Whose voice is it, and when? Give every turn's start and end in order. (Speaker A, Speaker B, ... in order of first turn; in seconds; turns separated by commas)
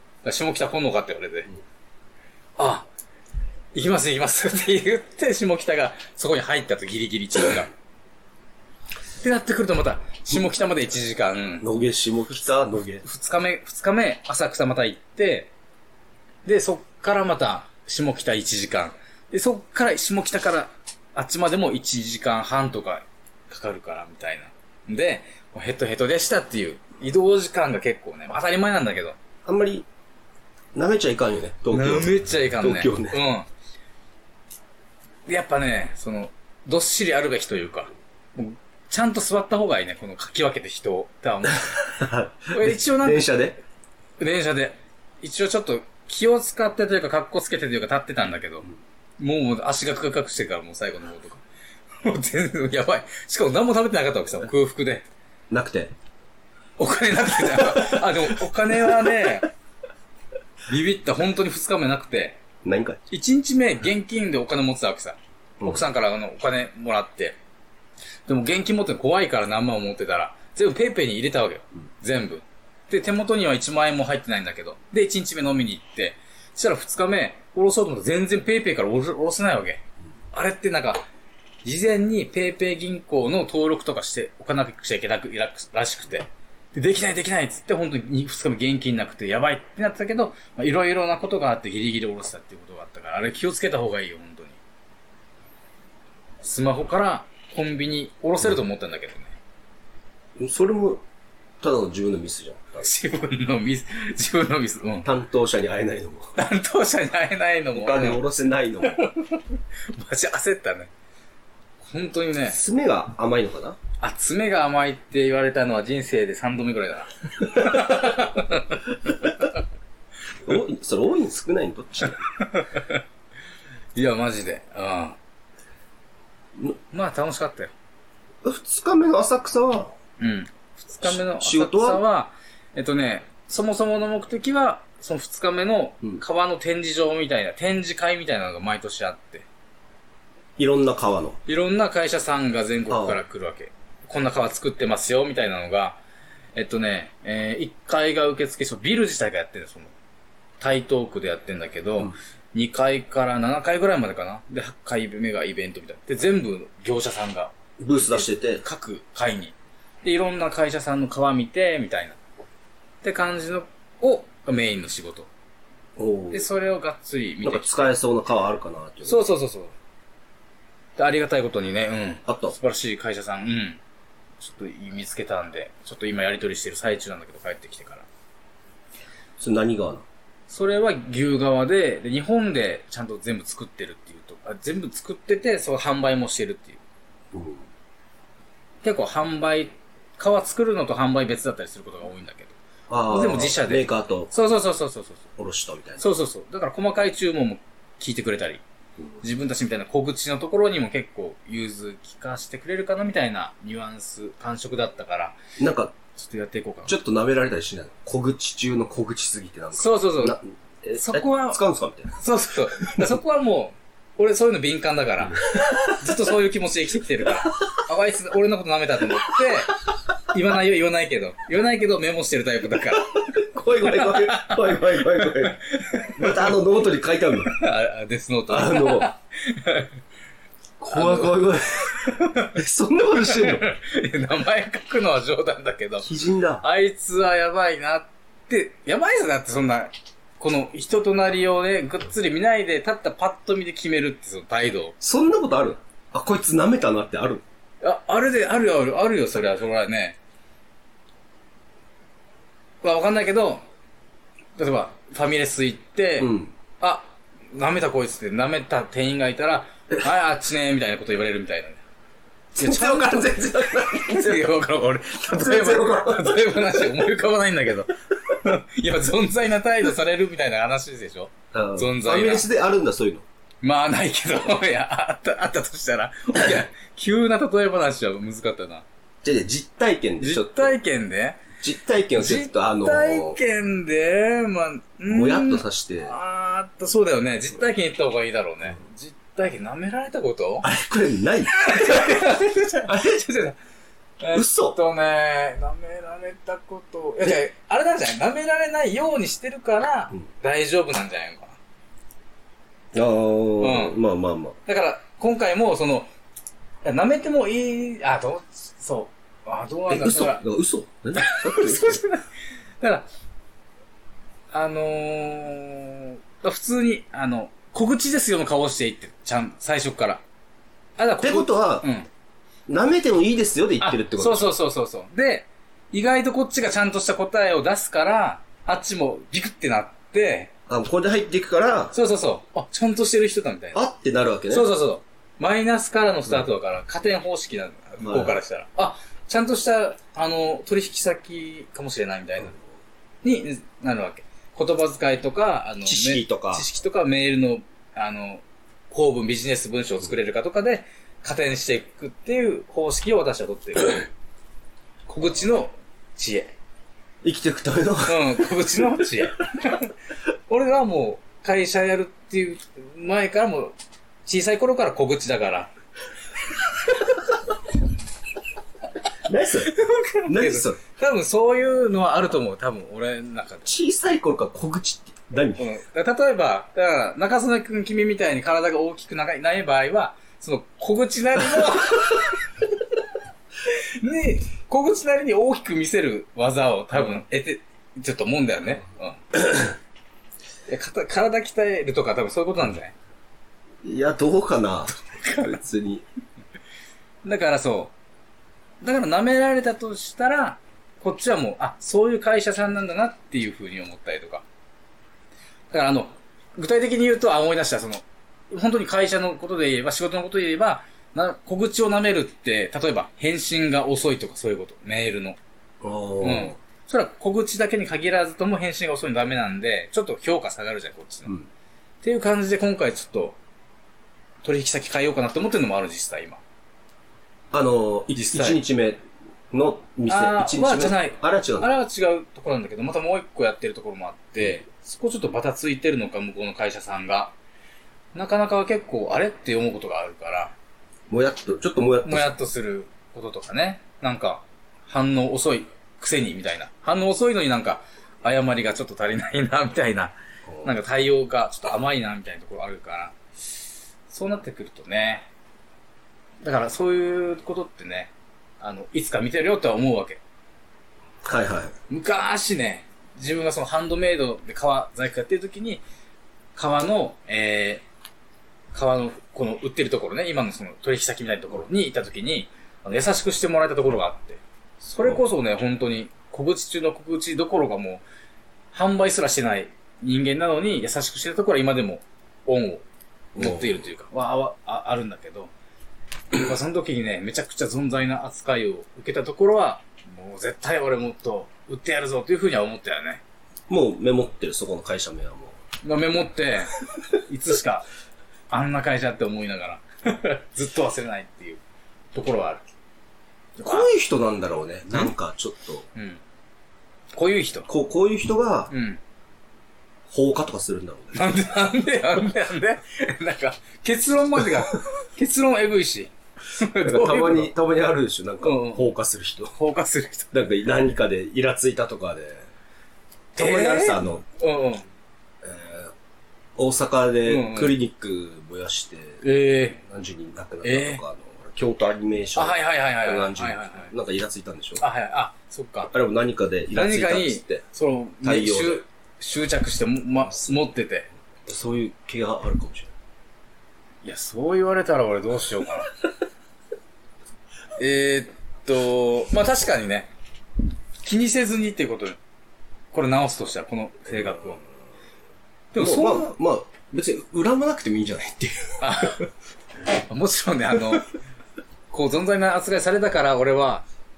Speaker A: 0.2-1.5, Speaker A: 2.6-2.9, Speaker A: 3.7-7.7, Speaker A: 9.2-11.7, Speaker B: 11.6-13.1, Speaker A: 13.0-15.5, Speaker A: 16.5-29.2, Speaker B: 29.4-29.9, Speaker B: 30.8-33.2, Speaker A: 31.7-33.5, Speaker A: 35.3-41.9, Speaker B: 41.9-43.6, Speaker A: 42.5-43.3, Speaker A: 44.2-48.7, Speaker A: 49.2-51.4, Speaker A: 52.0-55.1, Speaker B: 55.5-55.9, Speaker A: 56.8-59.5, Speaker B: 57.6-58.0, Speaker A: 60.7-62.4, Speaker B: 62.6-63.0, Speaker A: 63.1-67.4, Speaker A: 68.3-79.8, Speaker A: 80.3-81.0, Speaker A: 81.6-94.6, Speaker A: 96.4-99.4, Speaker B: 100.4-101.0, Speaker B: 101.6-102.9, Speaker A: 102.8-105.1, Speaker B: 105.0-106.3, Speaker A: 106.4-108.2, Speaker B: 107.7-109.1, Speaker A: 108.9-110.9, Speaker A: 111.8-112.6, Speaker B: 112.5-113.8, Speaker A: 114.0-119.3, Speaker B: 120.5-122.2, Speaker A: 122.4-123.0, Speaker A: 124.0-125.2, Speaker A: 126.9-127.7, Speaker B: 128.4-129.9, Speaker A: 130.2-139.4, Speaker B: 131.0-132.0, Speaker B: 140.6-141.4, Speaker A: 141.5-146.0, Speaker B: 142.9-143.2, Speaker A: 146.6-149.9, Speaker A: 150.6-162.2, Speaker B: 157.8-158.6, Speaker A: 163.0-165.3, Speaker B: 166.0-166.4, Speaker A: 166.3-167.9, Speaker B: 167.4-169.2, Speaker A: 169.1-169.7, Speaker A: 171.0-173.8, Speaker B: 172.3-172.6, Speaker A: 174.4-178.1, Speaker B: 179.4-180.1, Speaker A: 180.5-186.8, Speaker B: 187.3-187.6, Speaker A: 188.8-192.6, Speaker B: 192.9-194.3, Speaker A: 193.1-195.2, Speaker B: 195.4-196.0, Speaker A: 196.0-198.6, Speaker A: 199.2-205.4, Speaker B: 205.6-205.9, Speaker A: 206.2-207.0, Speaker B: 206.9-212.1, Speaker A: 209.8-210.4, Speaker A: 210.9-211.6, Speaker A: 212.1-226.6, Speaker B: 223.2-225.6, Speaker B: 226.2-227.6, Speaker A: 227.5-230.0, Speaker B: 228.5-229.1, Speaker B: 230.8-233.7, Speaker A: 230.9-232.6, Speaker A: 233.3-236.1, Speaker B: 236.0-236.6, Speaker A: 236.6-244.9, Speaker B: 245.0-247.4, Speaker A: 247.8-250.2, Speaker A: 252.8-253.6, Speaker A: 254.6-261.8, Speaker B: 256.2-256.5, Speaker B: 262.5-264.5, Speaker A: 262.6-272.5, Speaker B: 265.3-266.9, Speaker B: 271.5-273.2, Speaker A: 273.6-278.9, Speaker B: 279.2-280.8, Speaker A: 280.2-281.5, Speaker B: 281.6-283.4, Speaker A: 282.2-290.7, Speaker B: 285.1-286.1, Speaker B: 290.6-292.2, Speaker A: 291.5-293.6, Speaker B: 292.9-293.1, Speaker A: 294.2-301.6, Speaker B: 294.3-294.8, Speaker B: 302.9-304.6, Speaker A: 303.6-304.0, Speaker A: 304.7-306.1, Speaker A: 306.8-310.4, Speaker B: 309.9-312.0, Speaker A: 311.2-312.3, Speaker A: 312.8-313.1, Speaker A: 314.5-320.2, Speaker A: 321.0-322.1, Speaker B: 321.2-321.9, Speaker B: 322.7-324.5, Speaker A: 323.8-330.5, Speaker B: 330.7-331.9, Speaker A: 331.9-333.8, Speaker B: 333.7-334.7, Speaker A: 334.5-342.6, Speaker B: 338.0-338.4, Speaker A: 343.2-354.1, Speaker B: 345.9-346.6, Speaker A: 355.1-356.5, Speaker B: 357.2-358.5, Speaker A: 358.1-359.9, Speaker A: 360.5-363.8, Speaker A: 364.3-365.7, Speaker B: 369.3-369.7, Speaker A: 369.6-373.7, Speaker B: 370.3-370.8, Speaker B: 373.6-375.7, Speaker A: 375.6-382.4, Speaker A: 383.7-389.6, Speaker A: 390.7-392.9, Speaker B: 393.8-396.1, Speaker A: 395.0-395.6, Speaker A: 397.2-397.9, Speaker A: 398.8-404.4, Speaker A: 405.7-415.4, Speaker B: 415.8-416.6, Speaker A: 416.2-421.4, Speaker A: 422.0-423.4, Speaker A: 424.4-426.4, Speaker B: 427.5-429.0, Speaker A: 428.1-428.6, Speaker B: 429.5-431.7, Speaker A: 430.1-437.4, Speaker A: 438.1-440.6, Speaker B: 441.1-442.3, Speaker A: 442.0-453.2, Speaker A: 454.1-455.3, Speaker A: 456.4-460.2, Speaker B: 461.2-461.7, Speaker A: 461.9-465.8, Speaker A: 466.6-467.9, Speaker A: 468.7-478.0, Speaker A: 478.7-482.9, Speaker B: 483.4-483.9, Speaker A: 483.4-485.5, Speaker A: 486.3-493.2, Speaker B: 493.7-495.6, Speaker A: 495.8-497.9, Speaker A: 498.5-501.6, Speaker A: 502.1-502.6, Speaker B: 503.6-505.9, Speaker A: 503.6-503.9, Speaker A: 505.9-506.2, Speaker A: 507.2-507.7, Speaker B: 507.7-508.7, Speaker A: 508.7-509.0, Speaker B: 510.1-511.6, Speaker A: 511.1-517.5, Speaker B: 516.8-519.5, Speaker A: 518.4-518.9, Speaker A: 519.5-520.3, Speaker B: 520.3-522.5, Speaker B: 523.4-524.2, Speaker A: 523.4-524.9, Speaker B: 525.4-525.9, Speaker B: 526.6-529.2, Speaker A: 527.3-527.8, Speaker A: 529.2-529.8, Speaker B: 529.8-534.8, Speaker A: 530.6-531.0, Speaker A: 532.4-533.9, Speaker A: 534.8-535.9, Speaker B: 535.9-537.6, Speaker A: 536.7-541.1, Speaker B: 538.2-538.8, Speaker B: 541.5-542.9, Speaker A: 544.0-546.0, Speaker A: 547.8-550.1, Speaker A: 551.0-552.2, Speaker A: 552.9-554.6, Speaker A: 555.7-556.3, Speaker B: 555.8-559.2, Speaker A: 558.8-559.3, Speaker A: 559.9-561.1, Speaker A: 561.9-563.9